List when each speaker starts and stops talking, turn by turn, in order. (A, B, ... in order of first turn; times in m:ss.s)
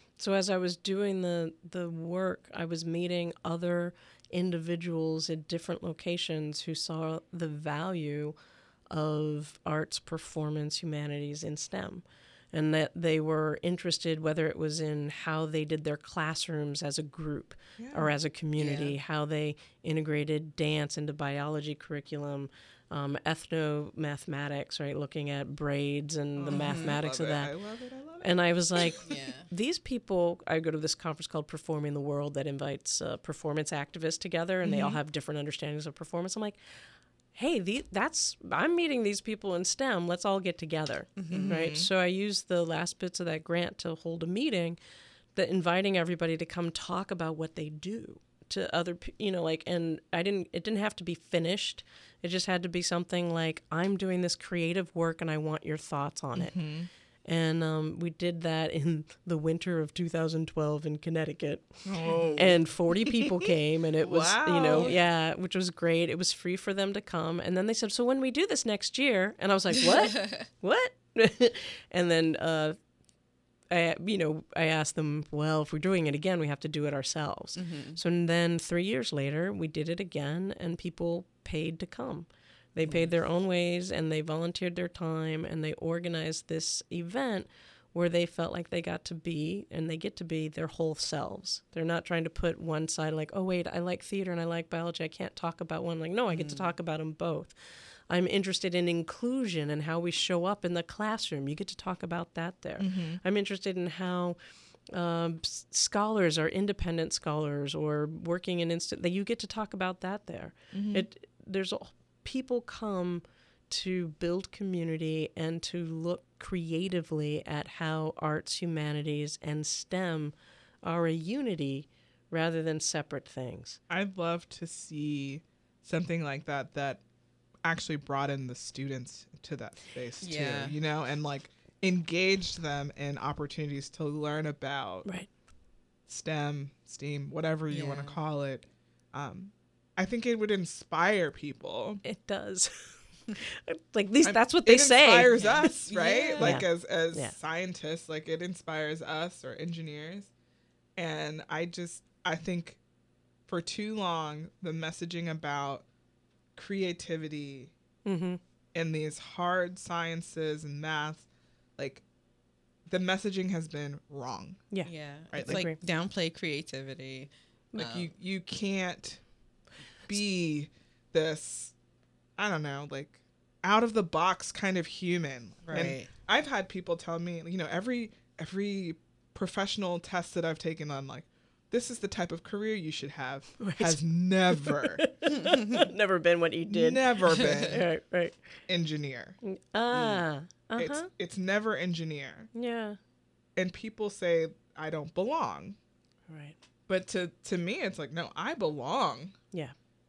0:00.2-0:08.4 A
0:08.9-0:27.5 A
0:17.8-0:18.1 B
0:18.6-0:19.0 C
0:26.4-0:29.0 B
0:26.5-0:27.0 C
0:28.2-0:36.6 A
0:29.0-0:29.5 C
0:34.6-0:35.0 B
0:37.3-0:44.8 A
0:41.2-0:41.6 C
0:41.3-0:41.9 B
0:45.3-0:56.5 A
0:56.3-0:56.9 B
0:57.2-1:01.8 A
1:01.8-1:03.3 B
1:02.4-1:12.8 A
1:04.0-1:05.0 B
1:04.6-1:05.0 C
1:09.9-1:10.4 C
1:13.7-1:37.6 A
1:17.6-1:18.0 C
1:36.3-1:36.7 C
1:38.1-1:44.4 A
1:42.8-1:43.2 B
1:44.9-2:03.8 A
1:50.7-1:51.1 B
2:03.9-2:07.0 B
2:07.6-2:15.1 B
2:10.2-2:10.8 C
2:16.1-2:22.0 B
2:17.7-2:18.2 C
2:22.0-2:25.7 A
2:24.2-2:30.3 B
2:25.3-2:26.6 C
2:26.4-2:27.3 A
2:31.0-2:32.8 B
2:33.5-2:35.9 B
2:36.5-2:37.7 B
2:38.0-2:38.4 A
2:38.7-2:42.0 B
2:42.9-2:44.7 B
2:44.8-2:48.1 C
2:45.3-2:45.6 B
2:45.4-2:45.8 A
2:47.8-2:49.2 B
2:50.0-2:51.7 B
2:52.4-3:05.1 B
2:55.7-2:56.1 C
3:03.6-3:08.4 A
3:05.4-3:05.8 C
3:06.7-3:07.8 B
3:08.7-3:09.4 B
3:09.4-3:11.1 A
3:09.9-3:10.2 C
3:10.8-3:12.5 B
3:12.5-3:13.0 A
3:13.6-3:15.8 B
3:16.3-3:16.6 A
3:16.9-3:19.3 B